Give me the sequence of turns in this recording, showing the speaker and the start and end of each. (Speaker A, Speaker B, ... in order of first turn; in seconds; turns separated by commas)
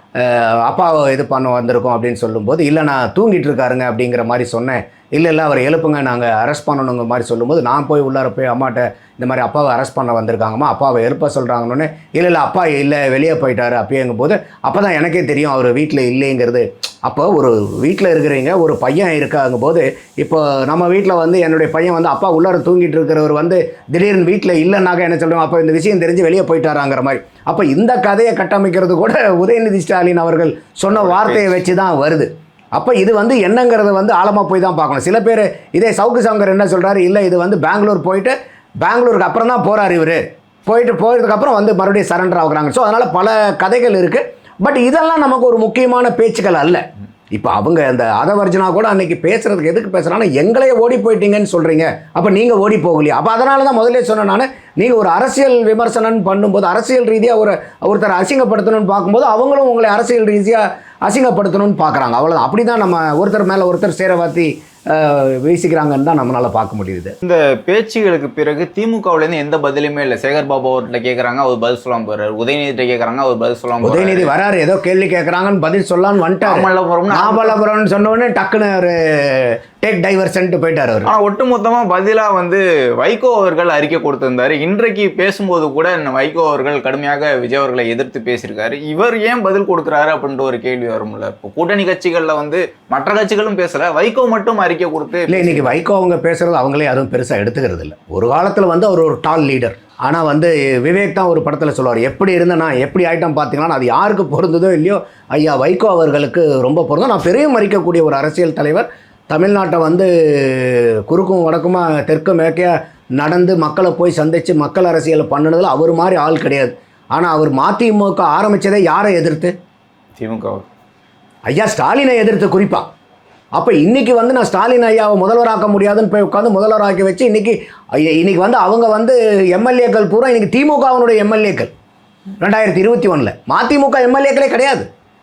Speaker A: 0.2-67.1, Speaker B: 30.9-31.6, Speaker B: 67.2-74.3, Speaker A: 73.8-81.1, Speaker B: 76.4-77.6, Speaker B: 81.0-95.7, Speaker A: 95.3-119.5, Speaker B: 120.2-120.7, Speaker A: 121.5-122.8, Speaker A: 123.5-131.7, Speaker A: 132.4-134.9